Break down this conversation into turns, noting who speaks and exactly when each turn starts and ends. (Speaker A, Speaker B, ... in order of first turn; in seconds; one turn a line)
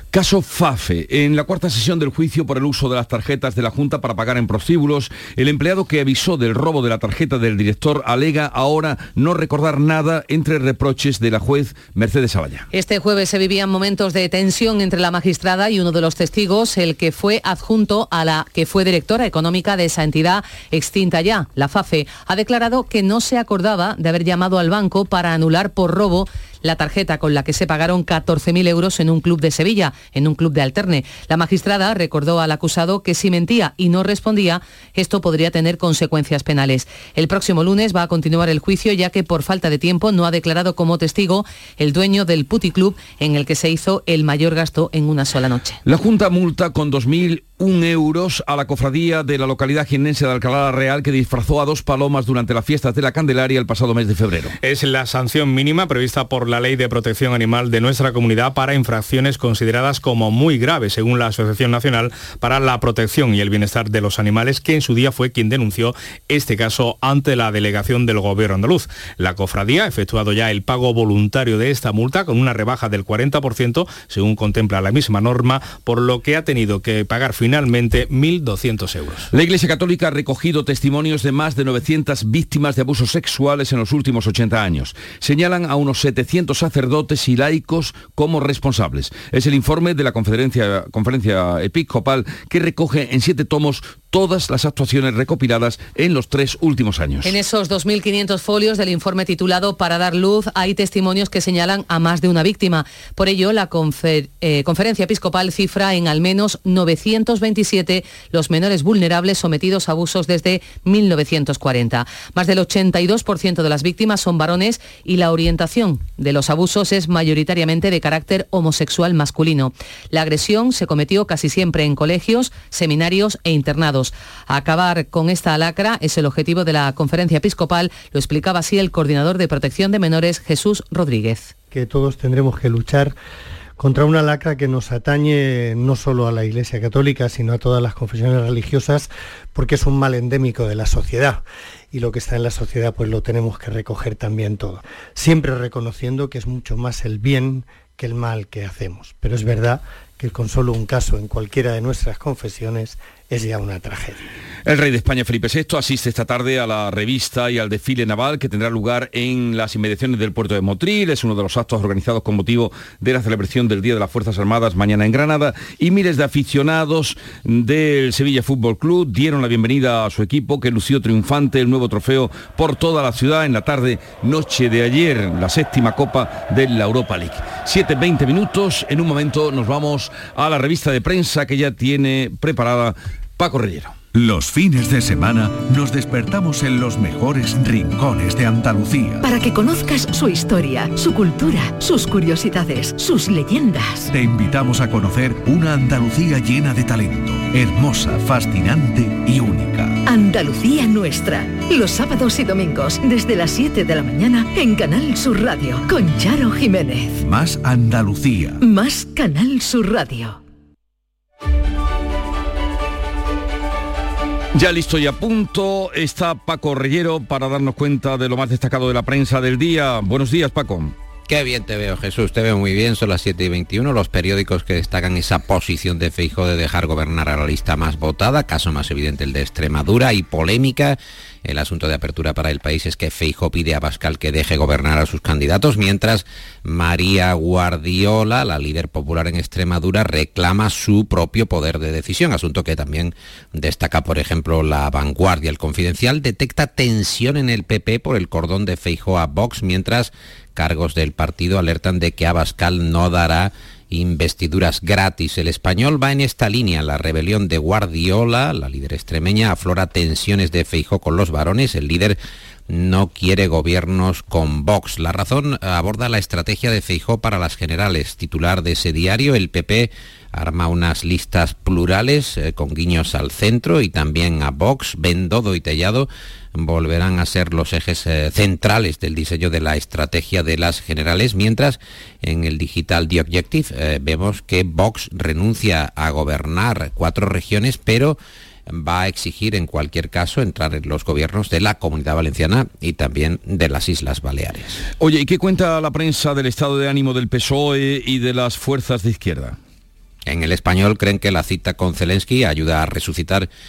Speaker A: 0.1-12.7
Speaker B: 12.7-45.8
Speaker A: 45.9-54.5
Speaker C: 54.6-79.3
Speaker A: 79.3-97.3
Speaker B: 97.2-131.5
Speaker D: 131.7-133.1
Speaker D: 133.8-154.3
Speaker A: 154.7-183.9
Speaker E: 184.1-189.2
Speaker F: 189.2-194.1
Speaker E: 194.1-200.0
Speaker F: 200.1-207.2
Speaker E: 207.2-208.6
Speaker F: 208.6-210.4
Speaker A: 214.6-220.9
Speaker G: 221.3-262.2
Speaker G: 262.7-288.2
Speaker G: 288.7-294.8
Speaker A: 295.0-299.6
Speaker G: 300.3-303.5